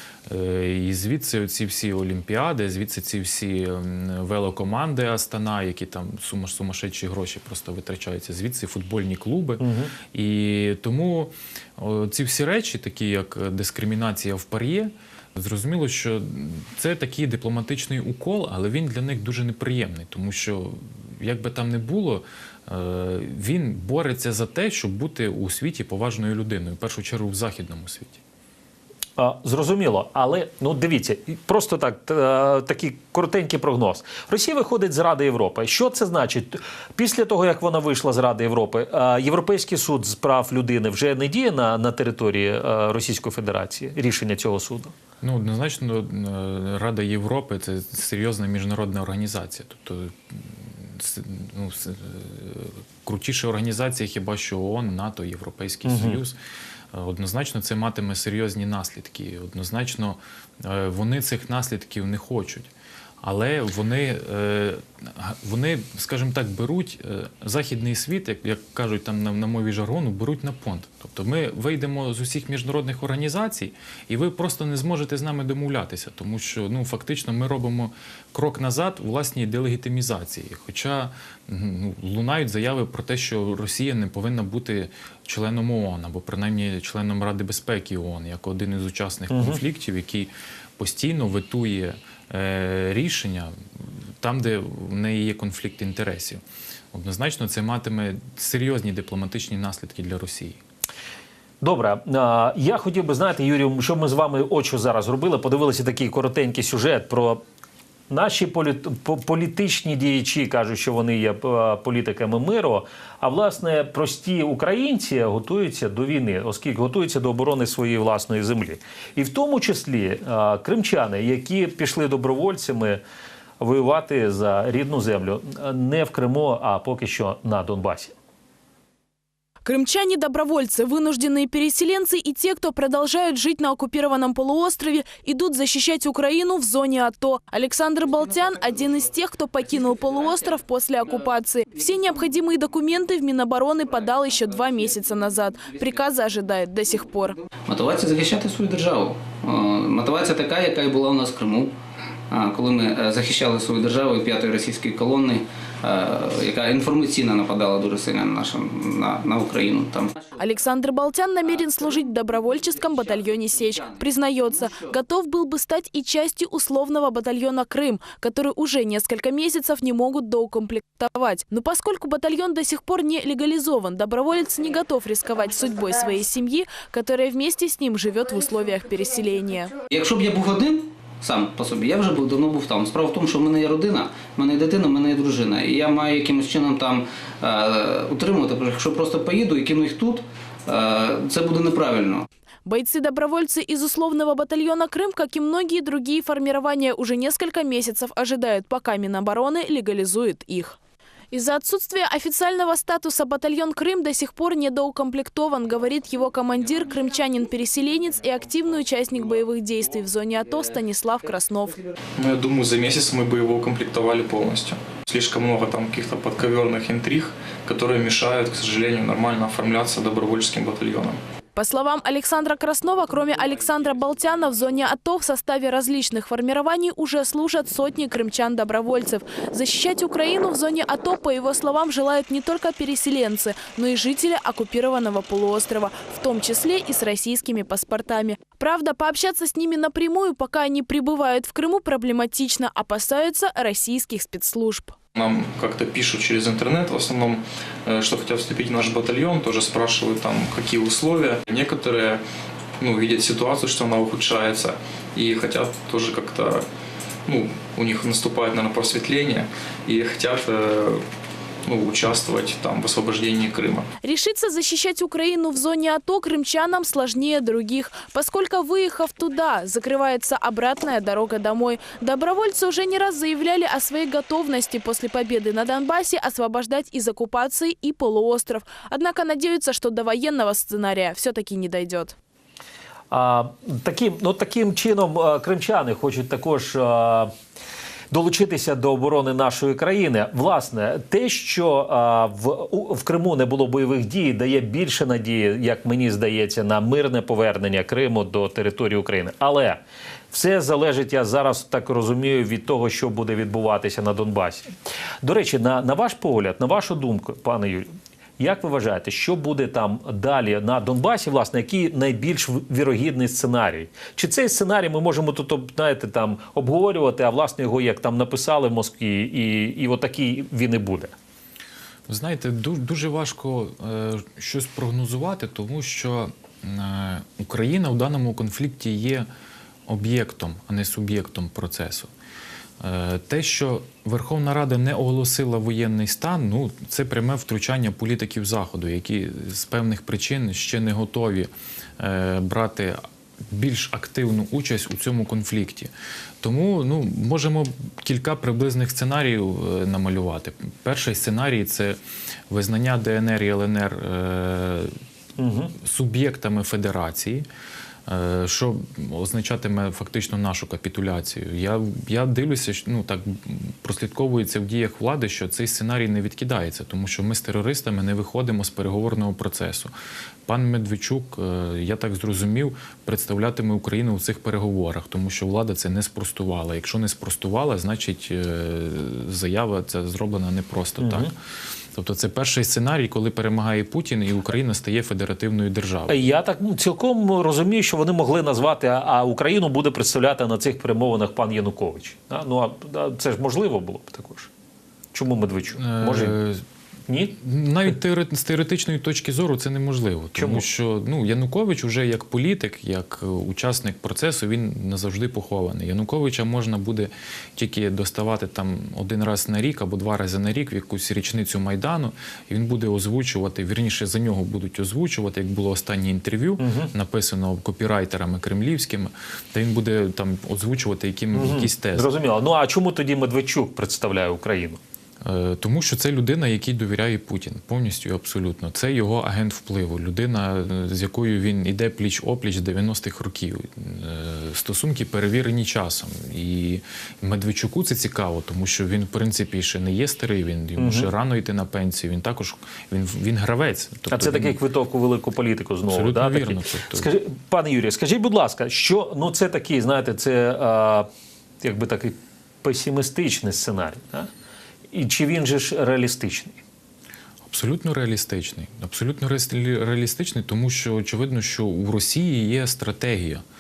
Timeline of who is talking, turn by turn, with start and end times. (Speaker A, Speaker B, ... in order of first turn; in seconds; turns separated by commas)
Speaker A: 0.2-28.2, Speaker B: 9.6-9.9, Speaker B: 29.2-44.9, Speaker A: 45.2-56.4, Speaker B: 55.8-56.2, Speaker A: 56.9-62.7, Speaker A: 63.2-100.6, Speaker B: 89.3-89.6, Speaker B: 101.6-107.4, Speaker B: 108.1-123.0, Speaker B: 123.6-128.1, Speaker C: 129.6-147.4, Speaker D: 147.7-151.7, Speaker D: 152.3-160.3, Speaker C: 160.4-179.7, Speaker D: 179.9-192.2, Speaker C: 192.7-200.8, Speaker C: 201.3-211.8, Speaker E: 212.2-221.2, Speaker C: 221.5-244.9, Speaker E: 245.1-252.2, Speaker E: 252.8-256.6, Speaker E: 257.3-261.0, Speaker E: 261.6-263.9, Speaker C: 264.0-282.1, Speaker B: 283.1-287.3, Speaker B: 288.1-299.8, Speaker B: 300.3-304.7, Speaker B: 305.2-321.1, Speaker A: 322.1-329.3, Speaker A: 329.9-332.1, Speaker A: 332.8-352.0, Speaker A: 352.5-354.9, Speaker B: 355.4-355.7, Speaker A: 355.8-357.4, Speaker A: 358.1-369.9, Speaker A: 370.4-381.3, Speaker B: 381.0-381.3, Speaker A: 381.9-386.2, Speaker B: 386.1-394.5, Speaker B: 395.1-396.4, Speaker A: 395.8-396.6, Speaker B: 397.1-397.3, Speaker A: 397.2-422.1, Speaker B: 400.4-400.6, Speaker B: 416.6-416.9, Speaker B: 421.3-424.8, Speaker A: 425.2-444.6, Speaker B: 440.8-441.1, Speaker B: 444.1-451.1, Speaker A: 445.9-447.1, Speaker B: 451.6-454.3, Speaker B: 454.9-456.6, Speaker A: 457.4-463.4